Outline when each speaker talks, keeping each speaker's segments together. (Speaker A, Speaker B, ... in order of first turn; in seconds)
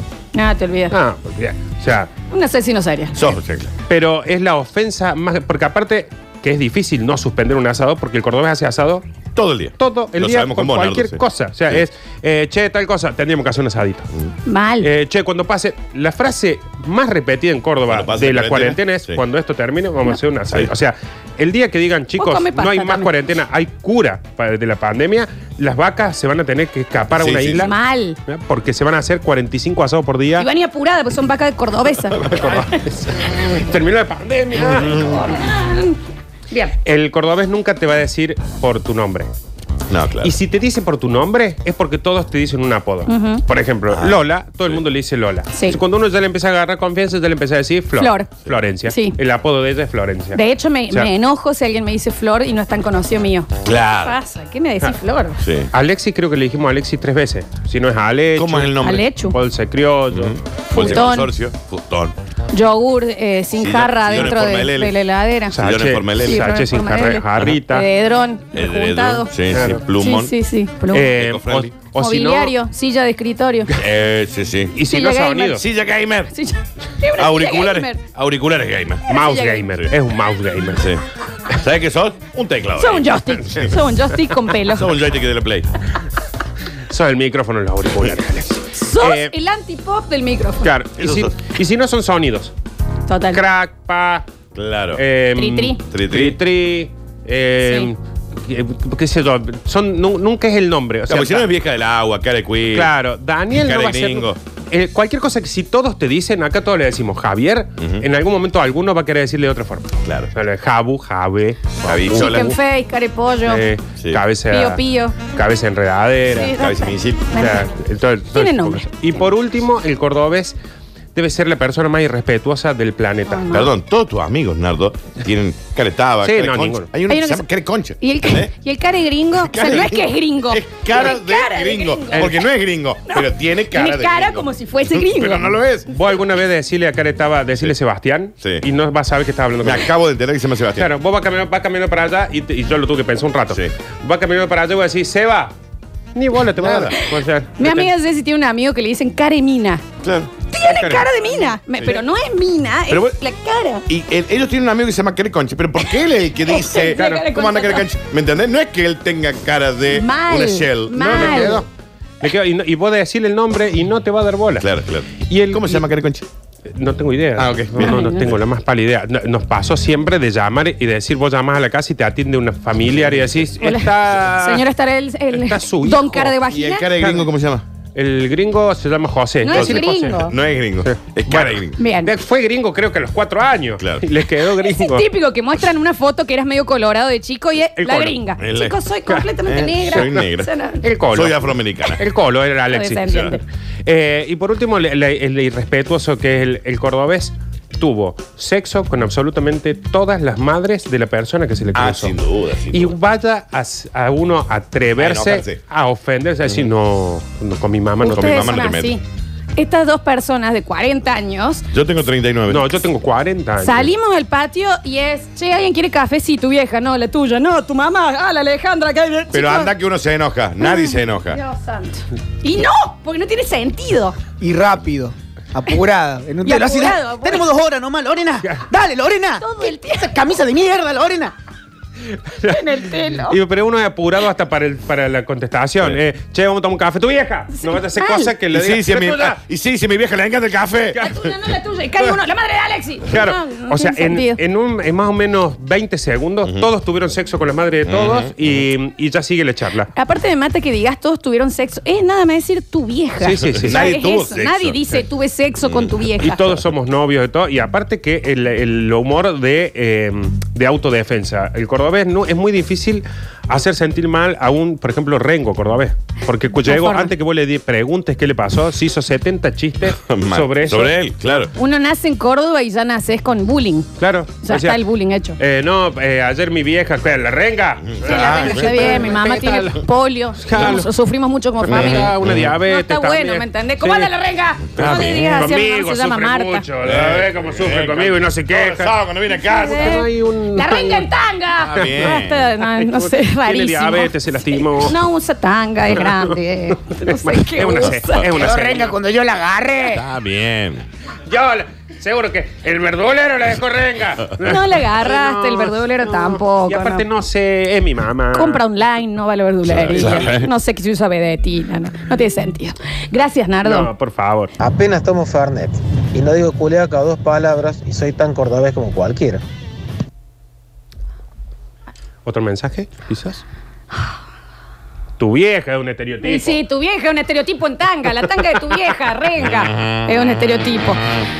Speaker A: 0.3-1.0, 2.3-3.2, 14.5-14.9, 22.2-23.1, 27.6-28.2, 30.4-32.8, 35.1-36.0, 36.5-36.8, 43.1-43.4, 45.5-45.8, 48.0-48.3, 48.9-49.2, 50.3-53.5, 54.0-55.4, 58.8-59.4, 60.7-61.3, 62.5-65.6, 66.2-69.3, 70.0-71.1, 72.0-73.8, 74.8-75.6, 76.3-78.0, 79.1-79.7, 82.8-84.9, 88.8-90.7, 93.1-93.4, 95.4-95.8, 97.6-97.9, 112.1-113.7, 114.5-115.2, 116.3-117.7, 118.3-118.8, 123.3-123.7, 127.1-127.5, 128.0-132.3, 133.1-135.6, 147.0-149.8, 150.5-153.8, 156.5-157.9, 159.9-161.6, 167.8-168.2, 173.6-176.9, 179.4-180.3, 181.8-182.1, 184.6-190.8, 192.7-193.4, 208.0-209.0, 209.6-211.6, 213.6-219.7, 220.6-224.2, 226.4-227.4, 229.4-230.2, 232.4-233.4, 237.5-238.3, 241.0-244.4, 249.9-256.4, 266.6-267.1, 271.6-273.9, 274.4-275.4, 278.0-286.6, 289.3-298.4, 304.4-307.1, 308.3-313.9, 326.2-331.0
Speaker B: 0.9-2.1, 3.9-9.0, 9.8-14.1, 14.8-30.5, 32.2-35.1, 36.9-39.3, 40.2-51.1, 55.7-61.1, 65.5-67.9, 69.5-69.8, 70.9-72.5, 74.8-75.6, 79.1-80.9, 86.9-89.3, 90.6-92.5, 93.3-94.2, 95.0-101.5, 102.7-112.6, 113.5-116.5, 117.4-120.5, 121.2-123.5, 126.2-126.9, 132.1-132.4, 135.9-139.9, 140.8-145.5, 146.2-147.9, 161.0-161.7, 162.2-164.7, 165.3-165.9, 166.8-174.7, 175.3-176.4, 177.0-177.3, 177.9-180.3, 180.8-185.1, 187.8-188.3, 189.9-190.2, 190.8-202.2, 202.7-208.5, 212.5-213.9, 232.3-239.4, 243.1-249.9, 253.2-253.9, 256.2-271.4, 274.0-274.8, 275.4-279.8, 280.4-280.9, 281.6-284.1, 284.8-288.9, 289.6-291.1, 291.8-294.9, 296.0-296.3, 296.9-299.0, 301.3-308.6, 309.9-310.4, 313.6-314.5, 322.2-323.4, 325.2-326.6
Speaker C: 3.1-3.7, 9.4-11.8, 17.9-19.2, 27.2-27.7, 34.6-35.3, 39.9-40.4, 43.9-44.8, 53.6-54.2, 55.4-55.7, 58.4-59.0, 60.1-62.1, 63.6-64.9, 65.5-66.5, 68.5-70.3, 71.0-71.7, 73.8-74.8, 75.5-76.3, 77.2-79.1, 80.7-83.8, 84.6-85.7, 91.0-91.3, 94.5-95.0, 95.9-96.4, 101.1-102.9, 103.5-104.4, 107.8-108.1, 110.0-110.3, 111.8-112.5, 116.5-117.3, 123.5-128.5, 129.4-135.9, 139.6-140.9, 146.6-146.9, 150.0-151.1, 152.9-153.2, 153.9-161.7, 164.6-166.3, 167.4-168.4, 173.0-173.4, 176.5-177.6, 179.5-181.8, 183.8-184.0, 188.4-188.8, 189.4-190.5, 191.1-192.0, 193.1-193.3, 201.7-203.0, 205.0-205.6, 206.4-206.7, 208.1-208.9, 211.7-212.7, 219.3-221.4, 238.5-241.1, 247.9-248.6, 253.5-255.0, 255.7-255.9, 270.0-271.5, 277.9-279.0, 281.6-282.5, 284.8-285.4, 286.8-290.0, 291.6-292.5, 299.8-300.9, 309.7-310.5, 329.4-331.2
Speaker D: 224.4-231.3, 298.4-300.0
Speaker E: 314.6-319.4